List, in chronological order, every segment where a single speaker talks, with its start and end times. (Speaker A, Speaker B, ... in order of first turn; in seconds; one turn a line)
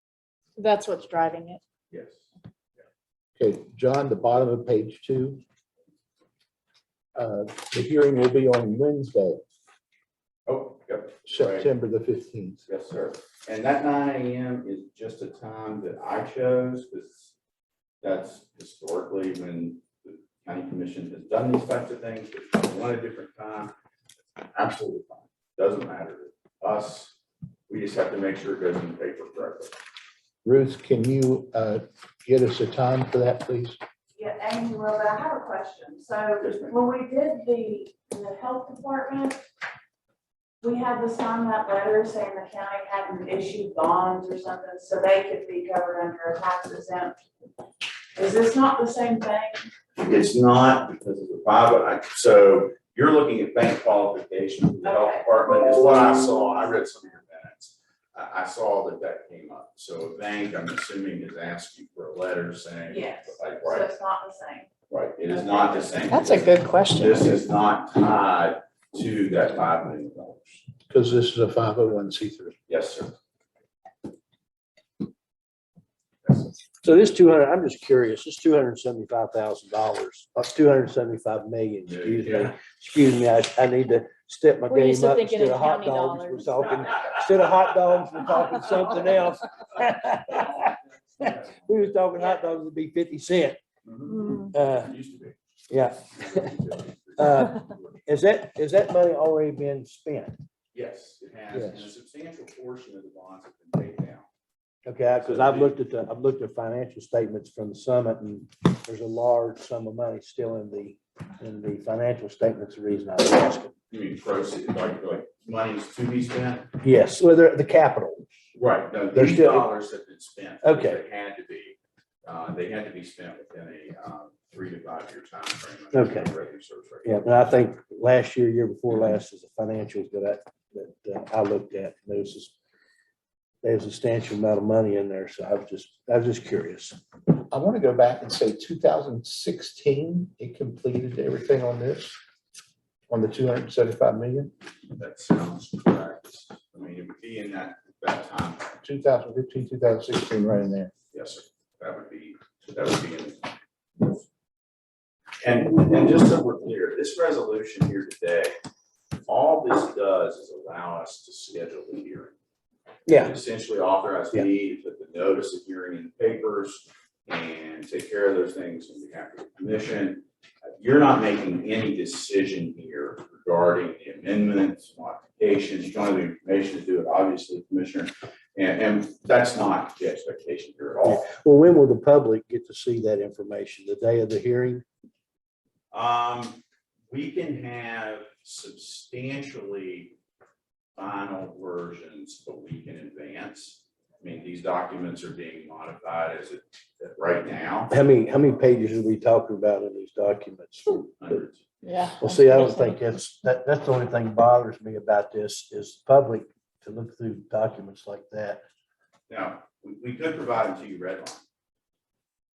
Speaker A: 0.6-1.6
Speaker B: 1.9-2.3
Speaker C: 3.4-5.4
Speaker C: 7.2-9.4
Speaker B: 10.5-11.7
Speaker C: 11.3-12.6
Speaker B: 12.7-17.3
Speaker B: 18.0-23.7
Speaker B: 24.6-27.1
Speaker B: 27.7-29.7
Speaker C: 30.4-33.8
Speaker D: 34.2-39.4
Speaker B: 36.4-36.8
Speaker D: 40.6-47.2
Speaker D: 48.2-49.6
Speaker B: 50.0-63.9
Speaker D: 54.8-55.3
Speaker D: 62.9-64.7
Speaker B: 64.9-70.6
Speaker D: 65.3-65.9
Speaker A: 66.1-67.4
Speaker C: 70.9-72.5
Speaker B: 72.7-73.1
Speaker B: 76.2-76.5
Speaker E: 76.8-93.6
Speaker B: 81.9-82.5
Speaker A: 84.7-86.8
Speaker B: 91.2-91.8
Speaker B: 93.8-95.4
Speaker E: 94.5-95.0
Speaker E: 95.7-96.6
Speaker B: 96.1-98.1
Speaker E: 97.2-100.4
Speaker B: 100.7-104.3
Speaker E: 101.5-101.9
Speaker E: 104.9-113.7
Speaker B: 105.2-105.7
Speaker B: 113.9-116.7
Speaker E: 116.8-118.3
Speaker B: 118.5-127.5
Speaker E: 119.1-119.7
Speaker E: 120.6-121.0
Speaker E: 125.9-126.3
Speaker E: 127.0-132.6
Speaker E: 133.6-137.0
Speaker C: 137.5-142.2
Speaker C: 143.1-144.5
Speaker B: 145.0-148.7
Speaker C: 148.8-150.9
Speaker B: 151.1-153.5
Speaker B: 155.4-158.5
Speaker B: 159.3-162.3
Speaker E: 163.1-163.4
Speaker B: 163.1-170.2
Speaker B: 170.8-181.3
Speaker E: 181.1-184.8
Speaker B: 185.9-190.2
Speaker B: 191.0-197.9
Speaker E: 197.9-201.1
Speaker B: 201.1-201.6
Speaker A: 201.8-203.0
Speaker E: 202.2-208.6
Speaker B: 209.3-211.4